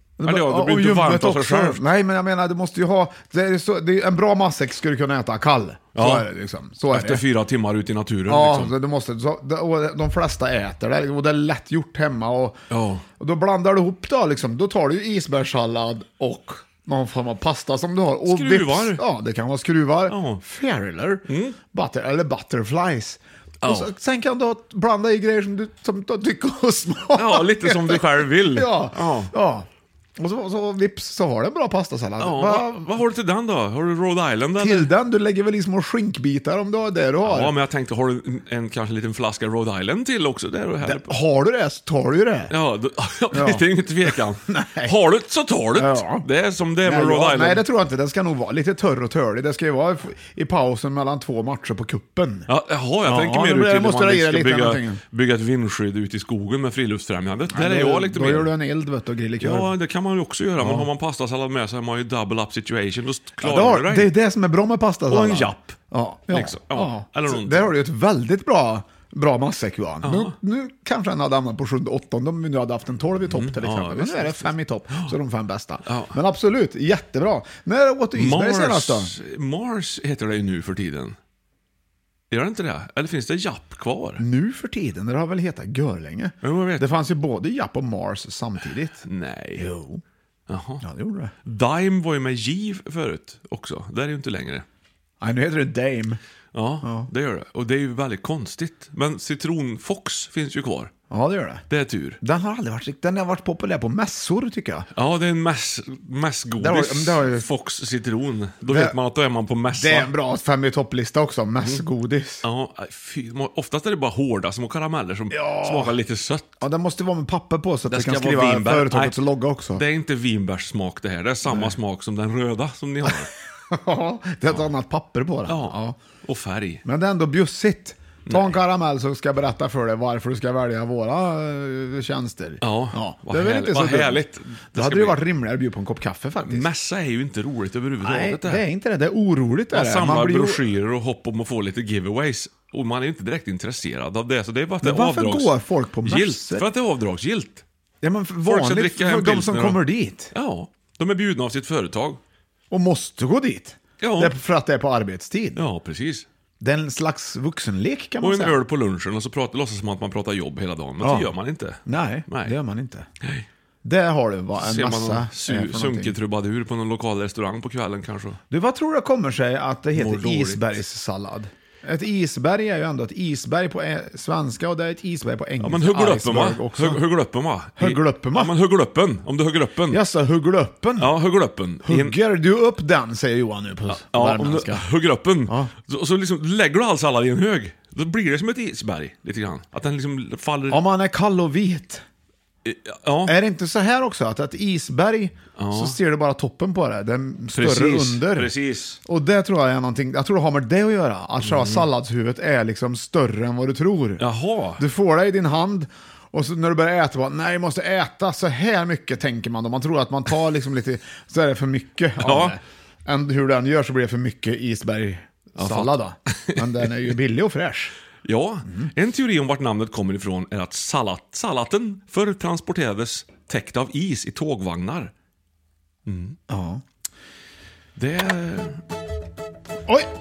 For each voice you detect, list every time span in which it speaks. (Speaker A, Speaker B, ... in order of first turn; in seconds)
Speaker A: 0.2-7.2, 8.3-12.6, 13.2-32.9, 34.6-37.5, 40.8-42.5, 43.3-44.9, 45.8-46.3, 46.8-52.5, 53.0-55.0, 57.5-59.7, 60.6-60.9, 63.4-79.1, 84.2-89.0, 89.6-90.0, 90.8-91.3, 95.2-96.2, 96.8-97.1, 101.1-101.6, 102.2-104.9, 106.6-107.5, 108.7-109.0, 109.8-112.5, 115.3-116.0, 116.6-119.8, 121.5-121.8, 123.7-126.0, 126.8-134.2, 134.8-136.7, 138.0-140.6, 144.8-146.7, 148.0-150.3, 152.7-155.6, 156.6-158.6, 161.0-161.3, 161.9-163.1, 163.8-166.1, 168.5-177.0, 177.8-178.5, 179.9-181.1, 181.8-184.8, 190.7-192.0, 193.3-198.5, 199.1-204.2, 204.8-217.9, 226.5-226.8
Speaker B: 0.2-1.8, 6.0-6.3, 6.9-8.7, 12.7-13.0, 18.3-19.0, 20.1-20.4, 21.3-21.6, 23.6-23.9, 27.2-29.3, 32.2-34.9, 37.2-41.2, 42.5-47.6, 52.5-58.5, 59.4-64.1, 65.1-65.8, 66.3-67.8, 70.0-70.3, 73.3-75.1, 75.9-76.2, 78.2-81.2, 82.3-84.2, 86.4-86.9, 89.1-89.7, 90.5-90.8, 91.5-94.7, 96.5-100.9, 101.7-102.2, 105.0-110.1, 112.4-116.5, 117.9-119.1, 119.7-123.3, 125.5-126.8, 128.3-128.5, 132.6-135.2, 136.4-138.6, 139.7-147.6, 148.4-152.2, 154.0-154.3, 155.6-156.3, 158.2-162.5, 164.6-168.4, 170.0-170.7, 175.6-180.0, 181.0-182.2, 183.9-190.8, 192.7-193.3, 195.6-196.0, 197.5-199.0, 201.4-201.9, 204.2-204.8, 212.2-212.6, 215.6-216.6, 218.2-225.1, 226.1-226.4, 228.0-228.8